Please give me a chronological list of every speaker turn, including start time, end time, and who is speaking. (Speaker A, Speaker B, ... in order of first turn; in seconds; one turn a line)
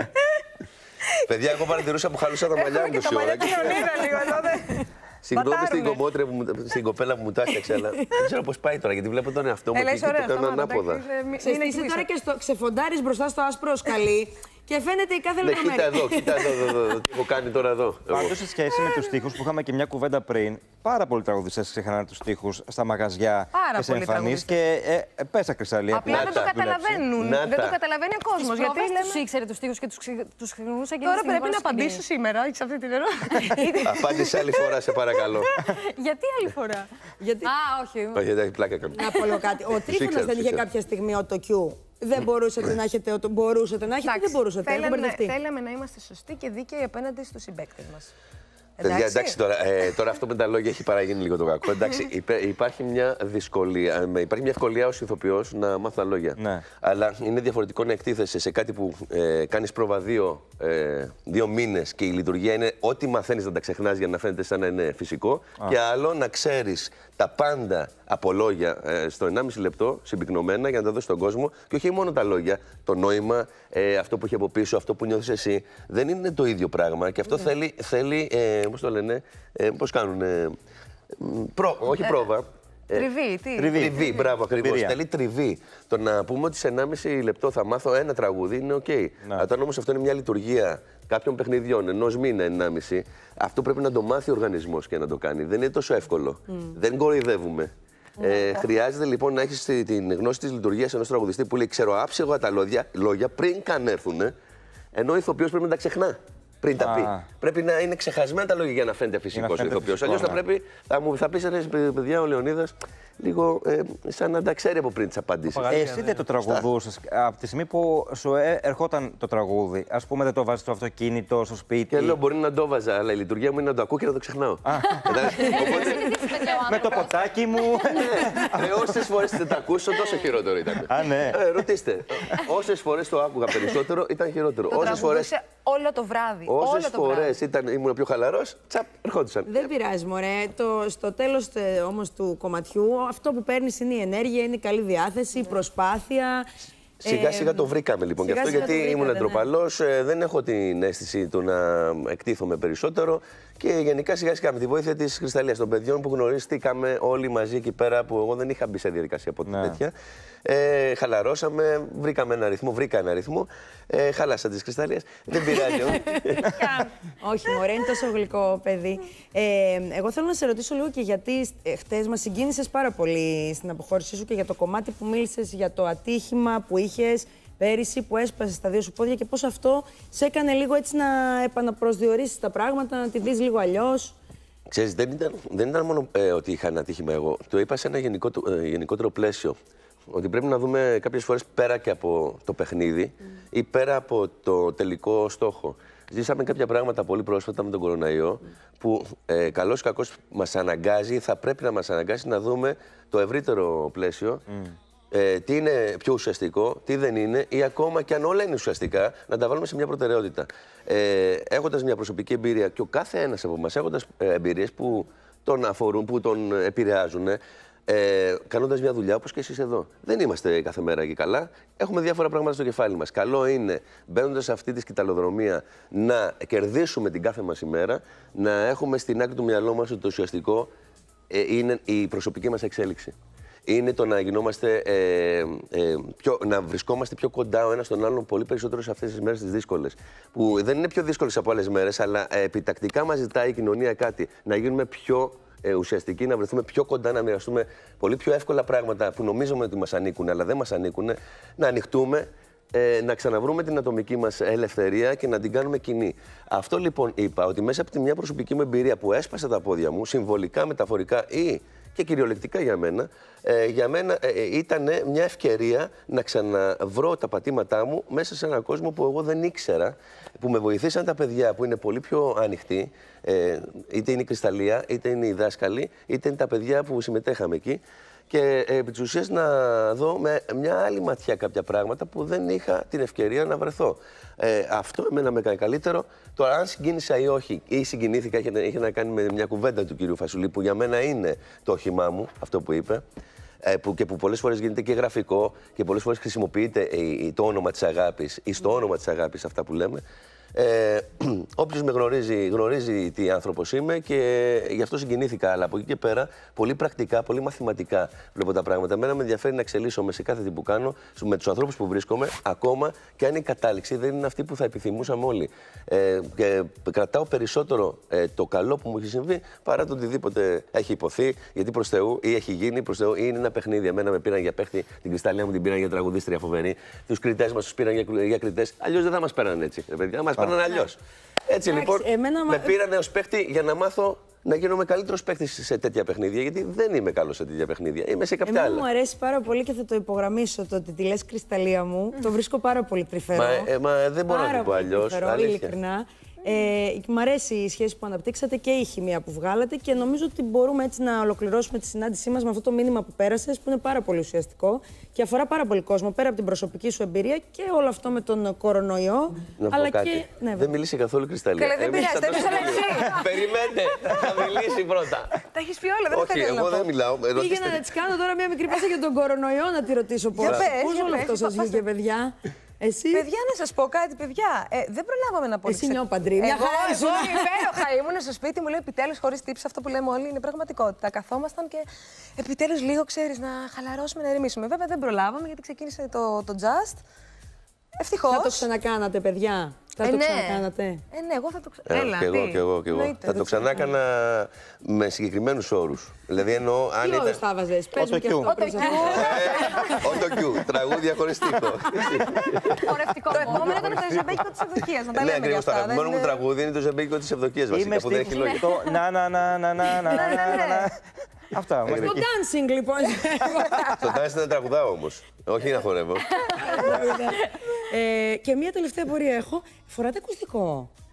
Speaker A: 1.3-4.0
Speaker B: 2.5-6.0
Speaker A: 5.2-11.0
Speaker B: 9.7-12.1
Speaker C: 11.4-16.7
Speaker A: 15.4-18.4
Speaker D: 18.1-27.0
Speaker B: 23.5-24.6
Speaker B: 25.9-29.2
Speaker A: 26.0-26.5
Speaker A: 27.1-27.8
Speaker E: 28.4-32.0
Speaker B: 31.0-34.8
Speaker A: 33.8-35.5
Speaker E: 35.7-36.9
Speaker C: 37.2-37.5
Speaker B: 37.4-38.2
Speaker A: 38.1-39.0
Speaker C: 38.9-45.3
Speaker A: 39.9-40.6
Speaker B: 44.0-48.1
Speaker B: 48.8-49.4
Speaker A: 48.8-80.5
Speaker D: 56.4-56.6
Speaker A: 81.2-83.1
Speaker B: 82.9-84.3
Speaker D: 83.5-84.0
Speaker A: 83.7-104.3
Speaker D: 84.5-85.0
Speaker A: 104.9-115.8
Speaker D: 106.8-107.2
Speaker D: 109.3-110.4
Speaker D: 115.5-122.2
Speaker A: 116.4-116.7
Speaker A: 121.9-127.1
Speaker D: 124.6-125.5
Speaker B: 125.4-127.1
Speaker D: 126.6-129.0
Speaker A: 127.9-135.3
Speaker D: 130.9-131.5
Speaker B: 134.7-137.4
Speaker A: 136.4-139.6
Speaker C: 139.4-146.5
Speaker A: 147.0-159.9
Speaker C: 147.0-149.4
Speaker D: 159.4-159.8
Speaker A: 160.4-166.6
Speaker C: 165.5-166.0
Speaker B: 166.4-166.9
Speaker C: 167.2-184.2
Speaker A: 184.7-189.6
Speaker A: 190.1-204.4
Speaker A: 205.1-230.7
Speaker A: 231.3-233.1
Speaker A: 233.7-293.0
Speaker A: 293.6-300.0
Speaker A: 300.5-338.9
Speaker C: 331.7-332.7
Speaker C: 338.4-343.7
Speaker A: 343.3-345.8
Speaker C: 344.3-360.7
Speaker A: 359.6-365.3
Speaker B: 361.6-363.5
Speaker C: 361.9-363.1
Speaker B: 364.0-364.5
Speaker B: 365.5-366.9
Speaker A: 366.1-367.8
Speaker C: 367.3-373.2
Speaker B: 370.4-371.8
Speaker A: 370.4-370.7
Speaker B: 373.1-387.0
Speaker C: 375.6-377.7
Speaker B: 388.0-388.7
Speaker C: 388.3-391.0
Speaker B: 390.0-393.9
Speaker A: 391.9-397.4
Speaker C: 397.0-400.1
Speaker D: 397.9-398.5
Speaker B: 398.5-400.1
Speaker A: 399.0-404.4
Speaker B: 402.8-406.4
Speaker C: 403.3-404.0
Speaker A: 405.1-408.7
Speaker D: 407.7-411.0
Speaker B: 408.3-408.9
Speaker B: 409.9-410.9
Speaker C: 410.2-410.6
Speaker D: 411.5-412.3
Speaker A: 411.8-412.1
Speaker C: 411.9-414.1
Speaker A: 413.9-416.3
Speaker B: 416.4-416.8
Speaker C: 416.5-420.9